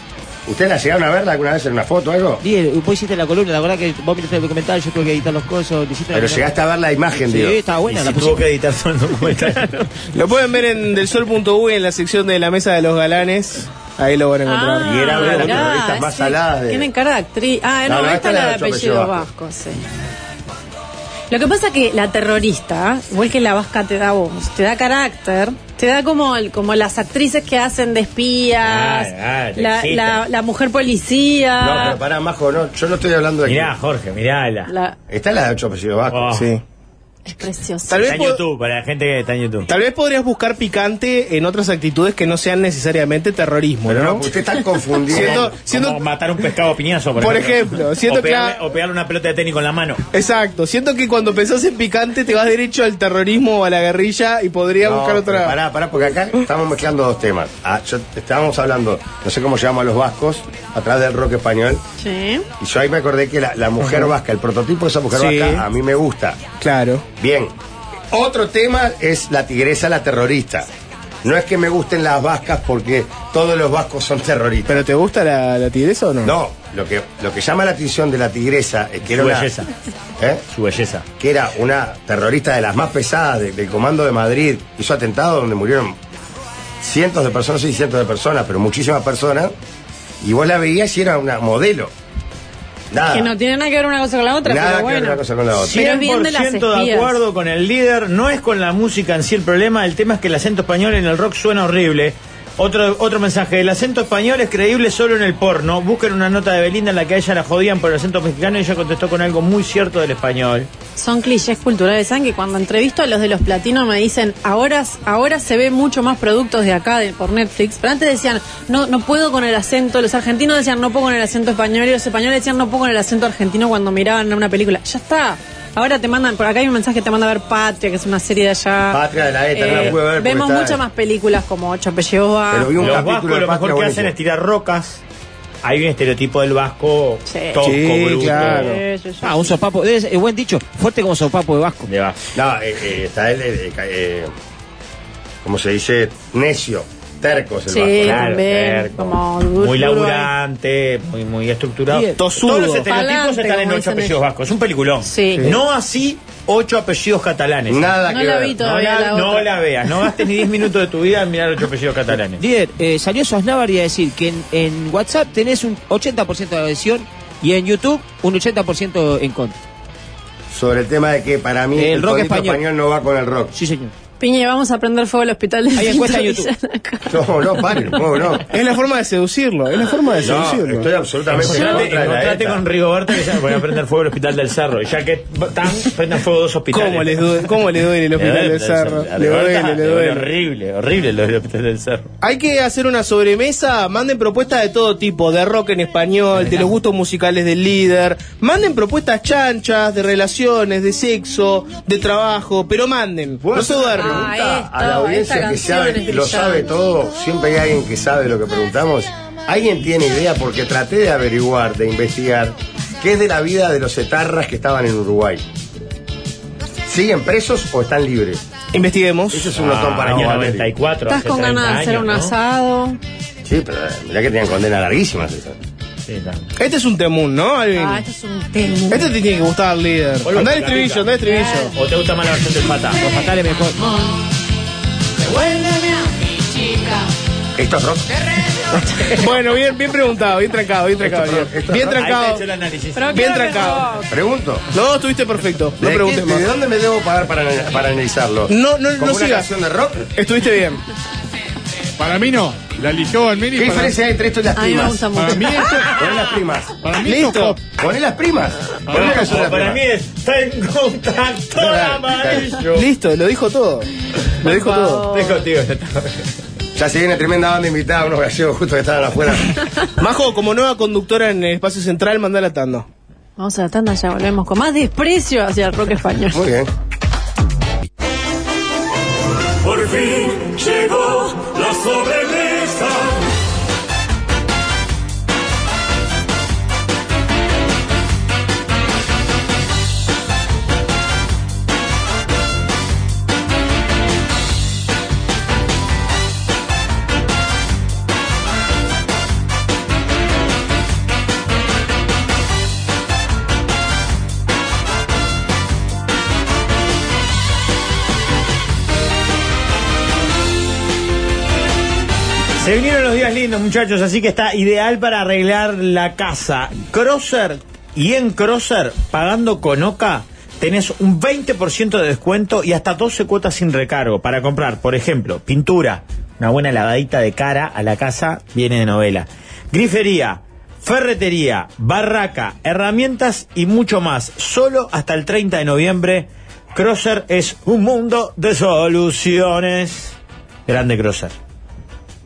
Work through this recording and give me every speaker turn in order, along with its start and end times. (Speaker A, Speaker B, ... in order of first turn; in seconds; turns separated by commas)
Speaker A: 0.5-2.4, Speaker B: 2.4-6.5, Speaker A: 6.1-7.6, Speaker B: 7.1-8.4, Speaker C: 7.9-9.9, Speaker D: 10.1-15.0, Speaker E: 14.4-19.8, Speaker A: 14.8-16.9, Speaker C: 14.9-15.7, Speaker A: 17.8-19.3, Speaker E: 21.3-32.0, Speaker C: 28.6-30.2, Speaker A: 31.6-33.7, Speaker C: 33.5-34.7, Speaker E: 34.7-35.0, Speaker A: 35.1-36.4, Speaker C: 36.1-36.5, Speaker D: 36.3-36.6, Speaker E: 37.2-38.2, Speaker D: 37.9-38.4, Speaker C: 38.0-39.7, Speaker D: 39.7-44.3, Speaker A: 43.9-45.5, Speaker D: 45.1-46.0, Speaker C: 45.1-50.0, Speaker D: 47.2-48.6, Speaker D: 50.1-55.5, Speaker A: 54.8-61.8, Speaker E: 62.0-62.5, Speaker A: 62.6-66.4, Speaker D: 65.1-65.6, Speaker D: 66.6-67.0, Speaker A: 67.2-67.5, Speaker A: 68.1-70.7, Speaker A: 71.2-74.8, Speaker D: 74.7-76.3, Speaker A: 76.2-79.5, Speaker C: 79.0-79.7, Speaker C: 80.5-81.0, Speaker A: 81.2-86.0, Speaker A: 86.8-89.5, Speaker A: 90.2-91.9, Speaker A: 92.9-93.3, Speaker E: 93.1-97.2, Speaker A: 94.4-95.9, Speaker C: 95.6-110.7, Speaker E: 111.0-129.0, Speaker A: 128.9-130.8, Speaker E: 129.5-133.0, Speaker C: 129.7-129.9, Speaker A: 132.5-134.1, Speaker C: 132.8-135.0, Speaker C: 135.6-138.7, Speaker E: 137.3-137.6, Speaker D: 137.6-138.8, Speaker E: 138.2-139.5, Speaker B: 139.2-141.9, Speaker C: 141.9-142.2, Speaker A: 142.3-144.3, Speaker A: 145.4-148.3, Speaker E: 147.7-150.3, Speaker C: 148.0-157.9, Speaker B: 151.9-152.2, Speaker D: 152.2-152.9, Speaker E: 152.9-154.2, Speaker E: 155.1-155.6, Speaker A: 157.7-158.6, Speaker E: 158.1-159.5, Speaker C: 158.6-162.4, Speaker B: 162.4-169.6, Speaker A: 170.5-173.5, Speaker B: 171.7-172.6, Speaker B: 173.5-173.9, Speaker E: 174.2-177.2, Speaker B: 175.7-176.5, Speaker A: 177.1-178.4, Speaker D: 178.5-180.9, Speaker A: 180.2-182.6, Speaker C: 181.3-187.5, Speaker E: 181.5-181.8, Speaker D: 186.7-190.3, Speaker C: 188.1-192.1, Speaker D: 192.2-204.2, Speaker A: 203.4-215.4, Speaker E: 203.9-206.7, Speaker A: 216.8-218.4, Speaker D: 218.7-219.5, Speaker A: 219.3-220.7, Speaker C: 219.5-222.3, Speaker E: 221.1-223.0, Speaker A: 223.4-225.6, Speaker C: 226.1-226.5, Speaker D: 226.6-228.0, Speaker E: 227.7-229.1, Speaker D: 228.9-231.7, Speaker C: 230.2-231.1, Speaker E: 231.3-231.6, Speaker C: 231.7-233.0, Speaker B: 233.0-233.8, Speaker C: 235.2-235.6, Speaker A: 237.6-238.1, Speaker D: 239.2-242.4, Speaker A: 241.0-242.0, Speaker C: 241.9-243.3, Speaker E: 242.9-244.1, Speaker D: 243.1-243.9, Speaker A: 244.1-244.7, Speaker D: 244.7-246.4, Speaker A: 245.8-250.1, Speaker D: 248.5-249.5, Speaker D: 250.1-250.8, Speaker F: 252.0-254.0, Speaker A: 253.6-255.2, Speaker E: 254.6-255.8, Speaker F: 255.2-256.0, Speaker C: 255.9-256.2, Speaker A: 255.9-256.8, Speaker F: 256.8-257.6, Speaker D: 257.0-257.6, Speaker A: 257.8-259.8, Speaker C: 258.9-262.8, Speaker A: 261.6-262.6, Speaker D: 261.7-262.0, Speaker D: 262.7-263.9, Speaker D: 264.4-265.1, Speaker E: 264.4-265.4, Speaker C: 265.1-266.3, Speaker A: 266.7-269.5, Speaker D: 270.0-272.9, Speaker E: 273.4-276.4, Speaker A: 276.3-276.7, Speaker G: 279.6-283.2, Speaker C: 312.6-340.1, Speaker C: 340.7-341.3